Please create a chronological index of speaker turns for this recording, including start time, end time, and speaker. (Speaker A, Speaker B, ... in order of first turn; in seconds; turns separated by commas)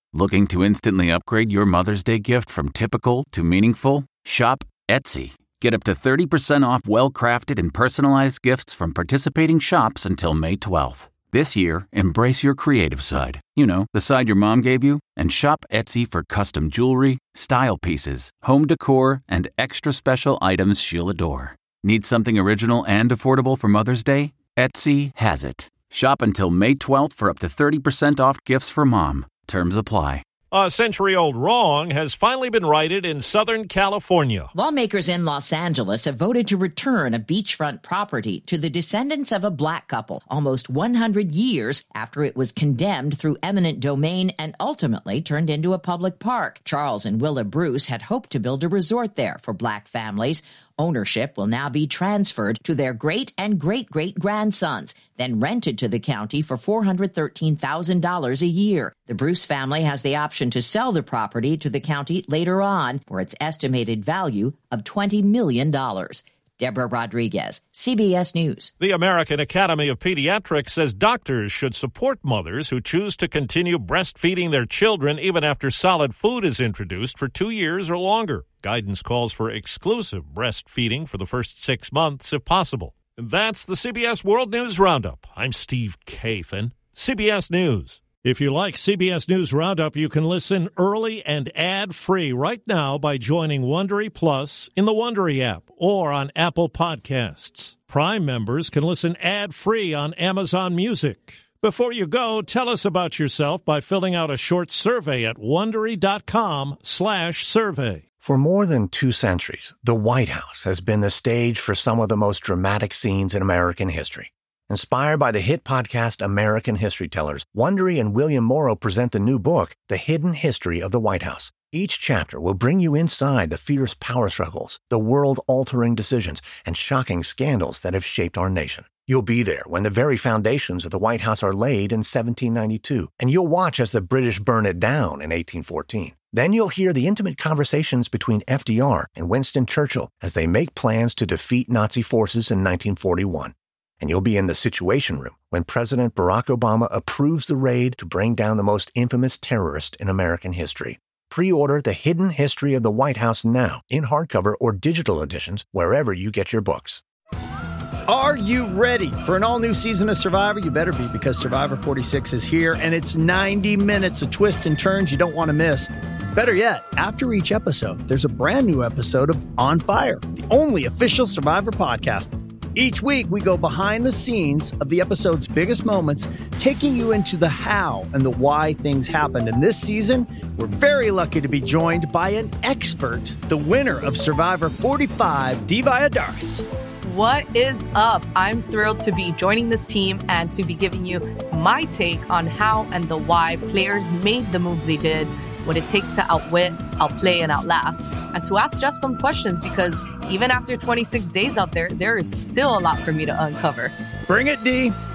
Speaker A: 0.1-30.2, Speaker B: 30.5-34.5, Speaker C: 34.5-68.7, Speaker B: 68.8-108.0, Speaker D: 108.2-157.0, Speaker E: 158.1-186.6, Speaker F: 187.0-203.9, Speaker E: 204.3-204.9